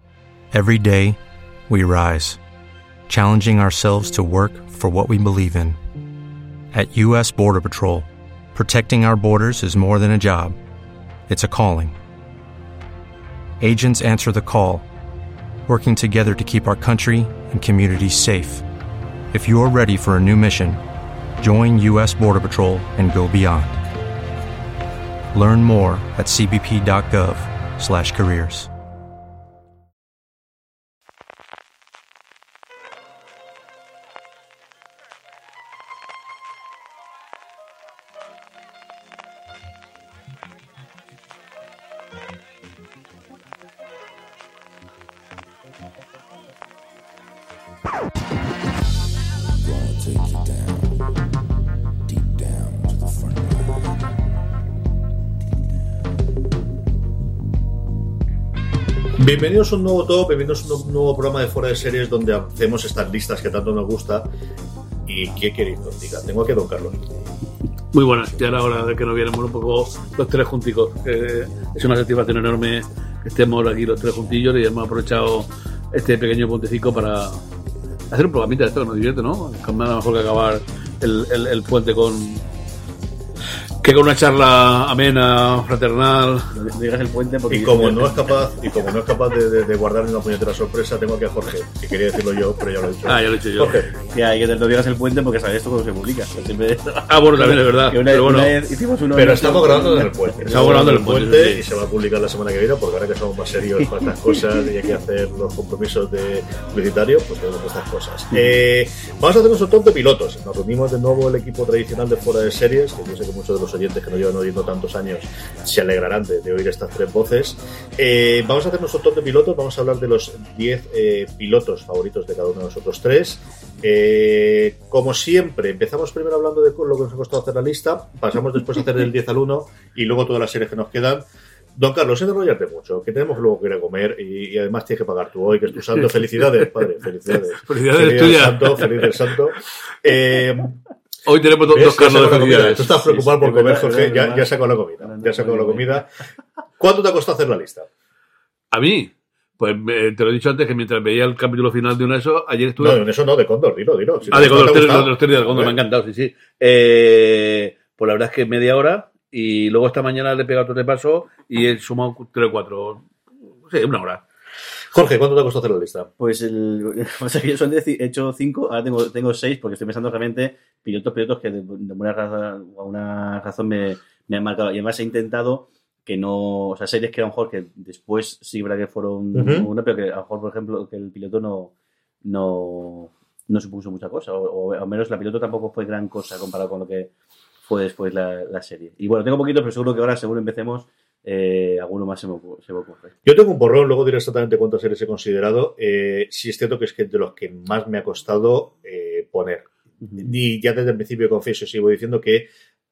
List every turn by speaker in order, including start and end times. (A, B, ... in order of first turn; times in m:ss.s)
0:00.5-0:02.4 A
0:03.1-0:05.8 A
0:06.7-0:10.6 A
0:11.3-0:12.0 A
0:13.6-0:14.8 A
0:15.7-0:18.6 A
0:19.3-0:20.8 A
0:21.4-0:23.8 A
0:25.3-0:28.7 A
0:59.2-1:04.3 B
1:05.0-1:07.1 B
1:07.9-1:17.4 C
1:18.1-1:22.4 C
1:23.8-1:26.5 C
1:26.5-1:28.3 D
1:27.5-1:33.9 B
1:33.0-1:33.8 C
1:34.1-1:40.7 D
1:37.1-1:38.6 C
1:39.1-2:11.2 B
1:40.5-1:41.6 C
2:11.8-2:20.8 B
2:15.9-2:16.7 C
2:17.3-2:19.4 C
2:21.2-2:23.1 C
2:21.7-2:26.1 B
2:23.0-2:26.0 D
2:26.8-2:27.9 B
2:28.7-2:33.0 C
2:32.8-2:35.8 B
2:34.3-2:43.1 C
2:43.6-2:44.2 C
2:44.9-2:46.1 B
2:46.2-3:01.7 D
2:59.3-2:59.7 B
3:02.2-3:07.1 D
3:07.6-3:13.1 D
3:13.2-3:22.5 B
3:20.0-3:20.3 D